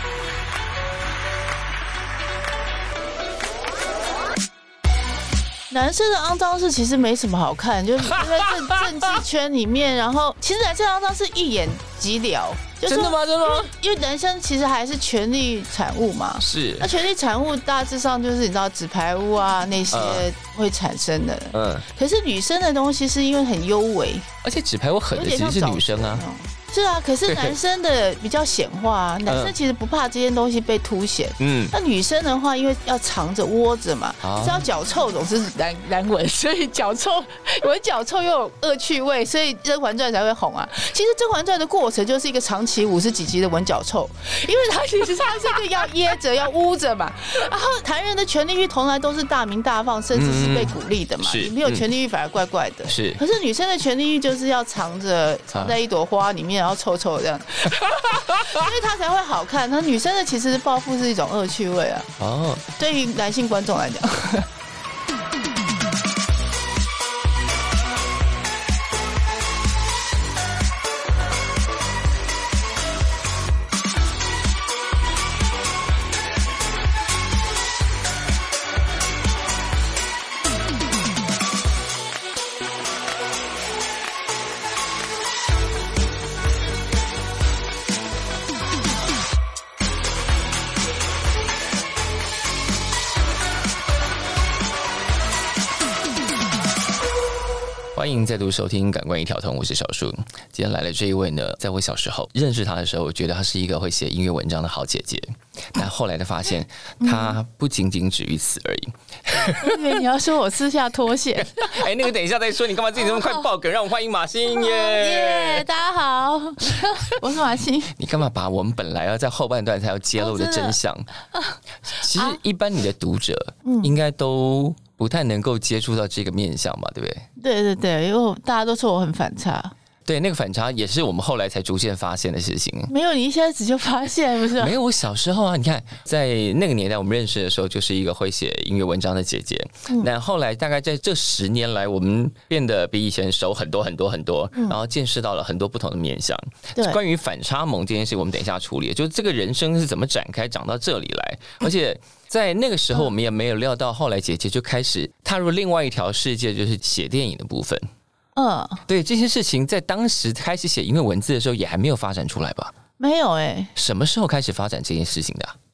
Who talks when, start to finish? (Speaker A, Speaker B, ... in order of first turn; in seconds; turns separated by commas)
Speaker A: 5.7-24.3, Speaker B: 12.9-13.7, Speaker B: 16.4-16.9, Speaker B: 19.9-20.3, Speaker B: 21.5-21.9, Speaker B: 24.4-26.2, Speaker A: 25.1-62.1, Speaker B: 27.3-27.6, Speaker B: 29.3-29.5, Speaker B: 31.4-31.7, Speaker B: 34.2-34.6, Speaker B: 50.1-51.9, Speaker B: 52.9-53.2, Speaker B: 62.2-62.6, Speaker A: 62.8-64.5, Speaker B: 98.0-109.8, Speaker A: 107.0-107.4, Speaker A: 109.4-111.9, Speaker B: 111.4-115.7, Speaker A: 114.5-118.0, Speaker B: 118.0-121.1, Speaker A: 120.2-120.8, Speaker B: 121.9-127.3, Speaker A: 122.1-122.4, Speaker A: 123.7-124.0, Speaker A: 127.4-129.7, Speaker B: 130.1-132.9, Speaker A: 132.9-134.8, Speaker B: 134.6-157.8, Speaker A: 158.4-158.8, Speaker B: 158.9-162.8, Speaker A: 163.0-163.7, Speaker B: 163.8-165.6